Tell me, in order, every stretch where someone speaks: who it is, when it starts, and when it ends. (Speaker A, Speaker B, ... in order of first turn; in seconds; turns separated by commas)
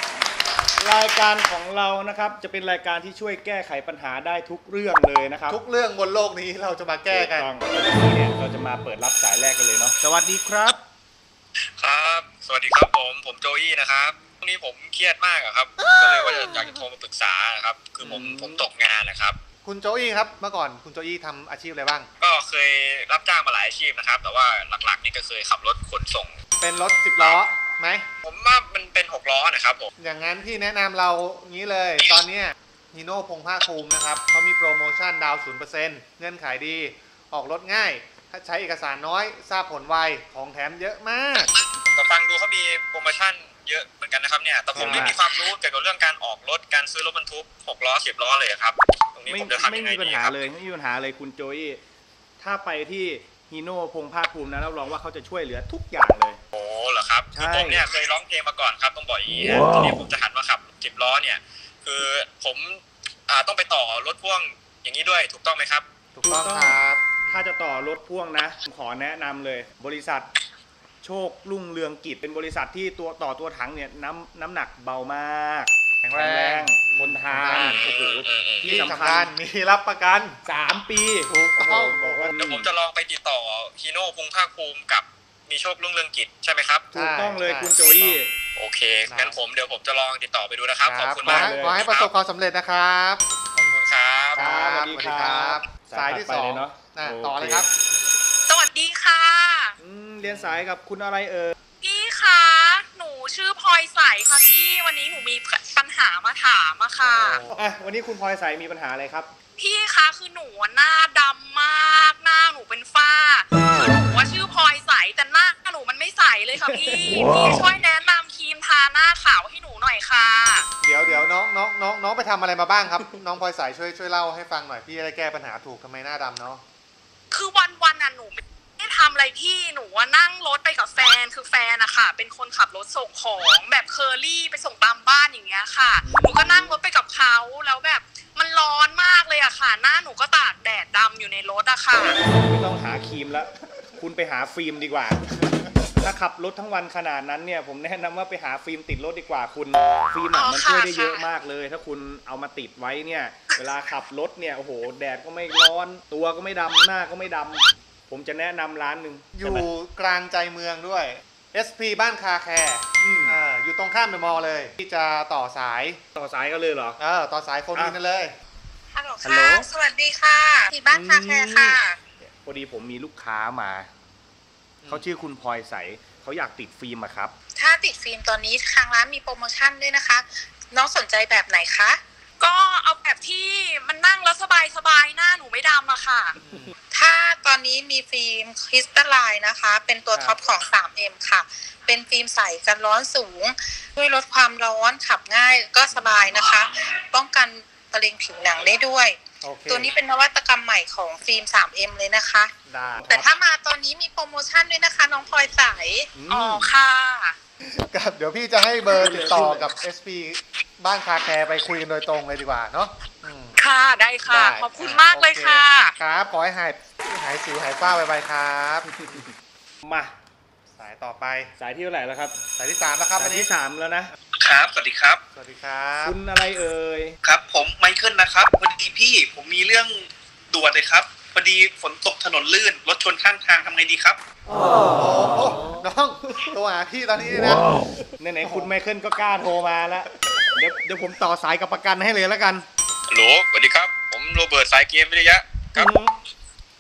Speaker A: 0.8-5.6, Speaker B: 5.5-7.5, Speaker A: 7.1-10.8, Speaker C: 11.8-19.4, Speaker A: 18.0-18.6, Speaker B: 19.6-22.1, Speaker C: 22.2-26.4, Speaker B: 26.6-28.1, Speaker C: 28.2-29.9, Speaker B: 30.0-41.5, Speaker C: 41.9-50.4, Speaker B: 44.7-45.2, Speaker A: 44.8-45.2, Speaker A: 49.3-51.8, Speaker A: 52.4-56.4, Speaker C: 56.5-65.8, Speaker A: 57.3-57.8, Speaker B: 66.2-67.5, Speaker A: 66.2-70.3, Speaker A: 71.0-79.3, Speaker B: 76.0-77.9, Speaker C: 77.5-78.7, Speaker B: 78.6-80.4, Speaker A: 80.5-82.7, Speaker B: 81.3-82.4, Speaker C: 82.4-86.9, Speaker B: 86.9-88.2, Speaker A: 86.9-88.3, Speaker C: 88.6-92.1, Speaker B: 89.1-89.4, Speaker B: 90.8-93.8, Speaker A: 91.2-91.8, Speaker C: 93.6-94.4, Speaker B: 94.3-97.7, Speaker A: 94.4-97.7, Speaker D: 98.5-99.8, Speaker A: 99.8-101.5, Speaker B: 100.2-100.6, Speaker D: 101.8-107.4, Speaker B: 107.0-107.7, Speaker A: 107.5-109.3, Speaker D: 109.6-120.7, Speaker A: 116.6-117.6, Speaker B: 120.8-126.6, Speaker A: 121.0-121.3, Speaker D: 127.3-142.2, Speaker A: 136.0-136.7, Speaker A: 142.4-159.7, Speaker D: 150.3-151.2, Speaker B: 159.3-166.0, Speaker A: 163.0-163.4, Speaker A: 166.2-167.0, Speaker B: 167.0-168.3, Speaker E: 168.9-172.0, Speaker A: 169.2-169.7, Speaker A: 170.9-173.9, Speaker B: 174.8-175.1, Speaker A: 174.9-177.3, Speaker E: 177.6-182.0, Speaker D: 182.4-186.4, Speaker B: 186.4-186.7, Speaker E: 186.9-202.5, Speaker B: 199.4-199.9, Speaker A: 202.7-203.3, Speaker B: 202.9-203.3, Speaker E: 203.0-206.1, Speaker A: 206.1-206.8, Speaker D: 206.3-207.4, Speaker B: 207.6-213.6, Speaker A: 208.9-209.7, Speaker D: 213.6-215.9, Speaker B: 214.3-219.2, Speaker A: 218.9-219.3, Speaker A: 219.8-220.1, Speaker B: 220.8-221.5, Speaker A: 221.6-222.4, Speaker B: 222.6-223.5, Speaker A: 223.2-224.1, Speaker F: 224.4-225.2, Speaker B: 225.3-226.2, Speaker A: 226.0-227.2, Speaker F: 227.2-234.2, Speaker B: 234.8-237.7, Speaker A: 238.2-242.7, Speaker B: 238.4-238.7, Speaker C: 243.1-245.9, Speaker A: 245.8-246.1